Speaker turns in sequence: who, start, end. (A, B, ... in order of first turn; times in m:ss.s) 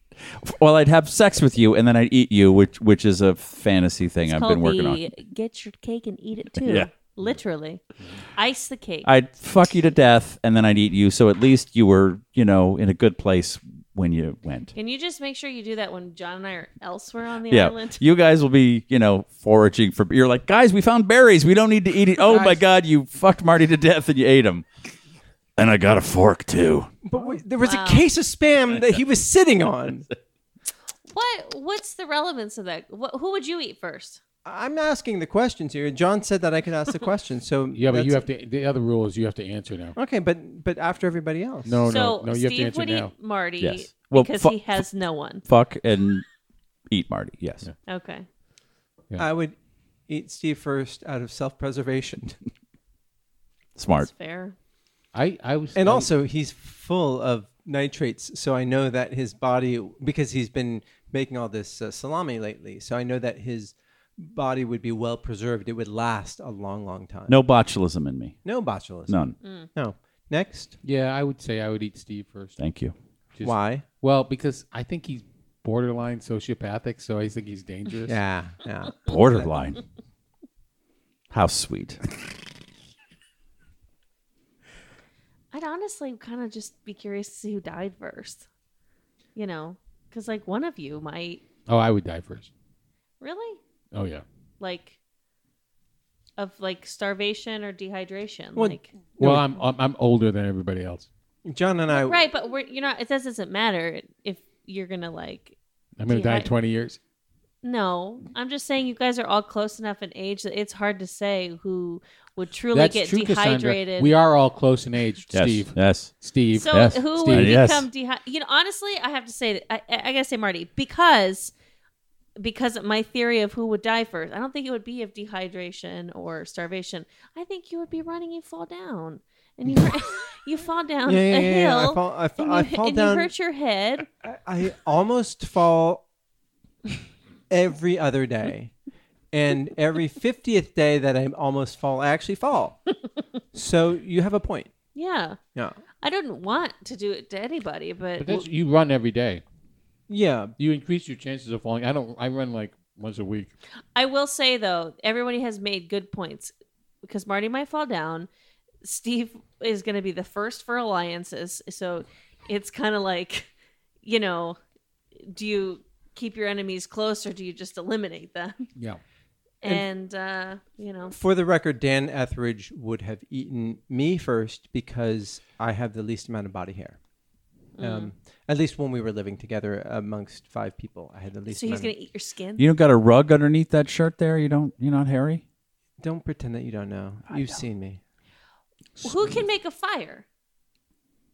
0:00.2-0:05.0 A
0:04.2-0:07.8 B
0:06.6-0:06.9 A
0:08.4-0:09.1 B
0:09.0-0:14.7 A
0:14.7-0:18.0 B
0:17.5-0:24.6 A
0:25.6-0:26.9 A
0:27.0-0:30.1 C
0:27.6-0:28.1 B
0:31.1-0:34.2 B
0:34.4-0:38.2 C
0:37.7-0:40.0 D
0:40.0-0:41.8 C
0:41.6-0:43.1 D
0:41.9-0:45.4 B
0:43.6-0:44.8 A
0:45.4-0:46.2 A
0:46.9-0:47.6 A
0:47.9-0:48.2 B
0:49.2-0:49.6 C
0:50.1-0:52.4 C
0:53.8-0:54.1 A
0:54.0-0:54.5 B
0:55.1-0:56.1 D
0:55.7-1:07.4 C
1:07.3-1:08.4 A
1:08.4-1:09.2 C
1:09.1-1:09.4 A
1:09.4-1:09.7 B
1:09.7-1:10.7 C
1:10.8-1:12.6 D
1:12.6-1:12.9 A
1:13.4-1:18.2 D
1:13.4-1:13.8 C
1:18.1-1:19.5 C
1:19.0-1:19.8 A
1:21.3-1:22.0 A
1:25.5-1:28.4 B
1:29.3-1:31.4 B
1:31.7-1:32.5 D
1:33.2-1:33.6 B
1:33.9-1:34.2 D
1:34.6-1:35.0 B
1:36.4-1:38.9 B
1:38.6-1:39.5 C
1:39.2-1:41.1 D
1:41.4-1:42.2 C
1:41.9-1:45.6 B
1:46.0-1:47.0 D
1:46.1-1:46.5 B
1:47.6-1:54.1 B
1:52.7-1:57.6 D
1:55.3-1:56.1 A
1:56.5-2:01.5 B
1:56.7-1:57.9 A
2:02.4-2:14.1 B
2:11.0-2:13.3 C
2:14.2-2:16.0 C
2:17.5-2:18.7 C
2:19.3-2:22.8 C
2:23.5-2:24.7 C
2:24.9-2:25.4 B
2:26.0-2:28.4 B
2:28.2-2:29.4 D
2:30.1-2:30.5 C
2:30.6-2:33.5 D
2:33.9-2:36.5 B
2:37.0-2:38.3 B
2:38.8-2:43.5 B
2:44.0-2:44.6 B
2:45.2-2:48.6 B
2:49.6-2:51.2 B
2:51.1-2:57.0 C
2:57.8-2:58.1 B
2:57.8-3:01.9 C
3:01.5-3:02.7 B
3:02.6-3:05.4 A
3:06.0-3:08.0 C
3:07.3-3:07.6 A
3:09.0-3:09.4 D
3:09.0-3:10.2 B